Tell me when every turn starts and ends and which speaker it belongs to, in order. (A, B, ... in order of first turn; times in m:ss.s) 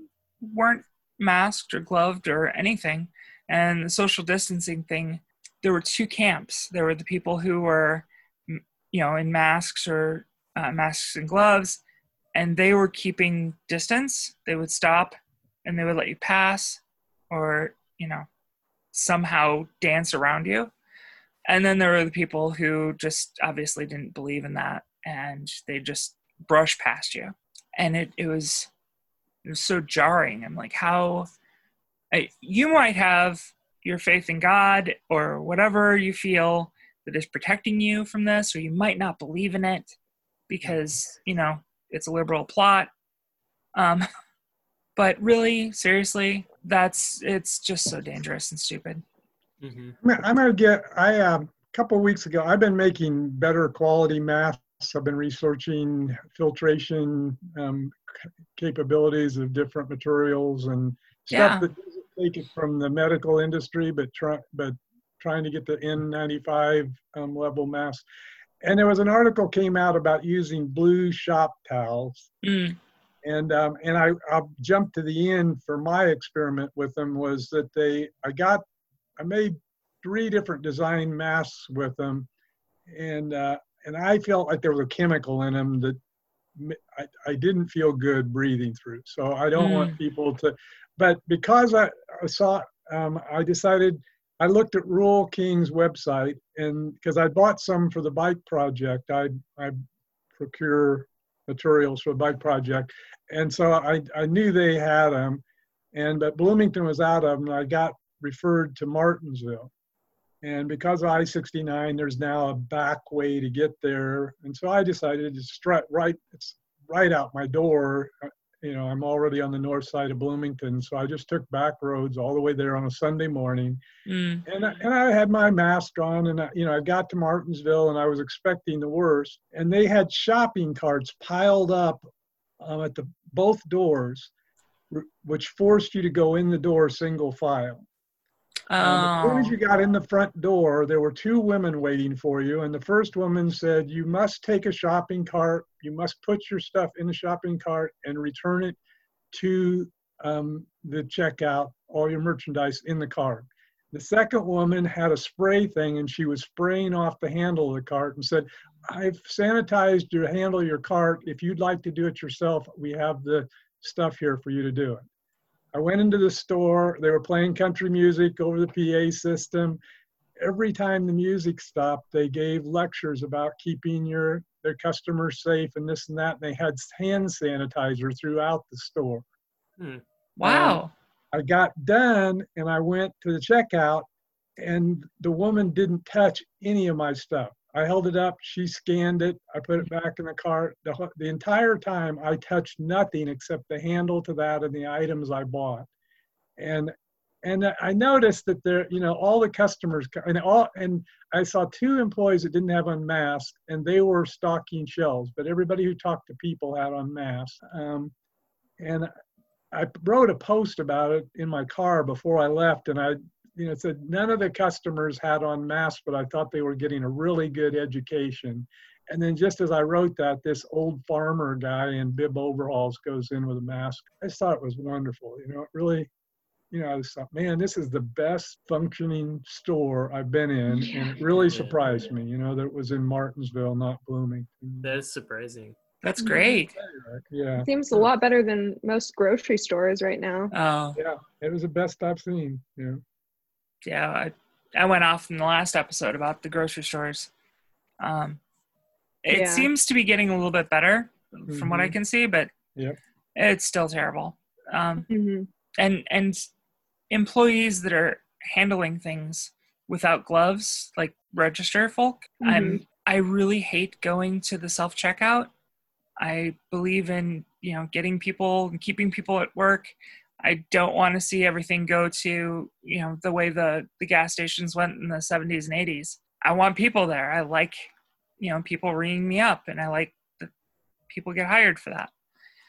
0:00.4-0:11.8 A
0:12.3-0:18.3 A
0:18.9-0:20.7 A
0:21.5-0:28.7 A
0:29.4-0:31.3 A
0:32.1-0:39.9 A
0:40.5-0:42.9 A
0:43.7-0:44.0 A
0:45.0-0:49.0 A
0:49.6-0:50.0 B
0:50.0-1:08.0 C
1:01.3-1:01.7 A
1:08.6-1:12.3 C
1:12.4-1:12.8 A
1:13.2-1:18.6 C
1:19.2-1:22.3 C
1:22.9-1:26.0 C
1:26.6-1:39.8 C
1:29.5-1:30.0 A
1:40.3-1:49.7 C
1:50.4-2:03.8 C
2:04.0-2:04.4 A
2:04.4-2:12.1 C
2:12.6-2:14.3 C
2:14.9-2:17.8 C
2:18.7-2:19.6 A
2:18.8-2:28.8 C
2:29.3-2:45.1 C
2:45.7-2:49.8 C
2:50.4-2:59.2 C
3:00.4-3:00.9 A
3:00.4-3:15.9 C
3:16.6-3:28.1 C
3:28.8-3:29.1 C
3:29.7-3:46.1 C
3:46.7-3:55.0 C
3:50.7-3:51.0 D
3:51.2-3:52.1 B
3:54.8-3:55.8 B
3:56.0-3:56.7 A
3:56.2-3:56.5 D
3:56.7-3:58.1 C
3:57.6-4:00.5 D
4:00.5-4:01.0 A
4:00.9-4:03.0 C
4:03.8-4:07.3 A
4:08.0-4:08.4 A
4:09.2-4:12.5 A
4:09.3-4:09.7 D
4:11.5-4:12.0 C
4:13.4-4:15.1 A
4:15.1-4:15.5 D
4:15.8-4:16.4 A
4:17.1-4:25.5 A
4:22.4-4:22.8 D
4:26.2-4:40.5 A
4:41.1-4:42.1 A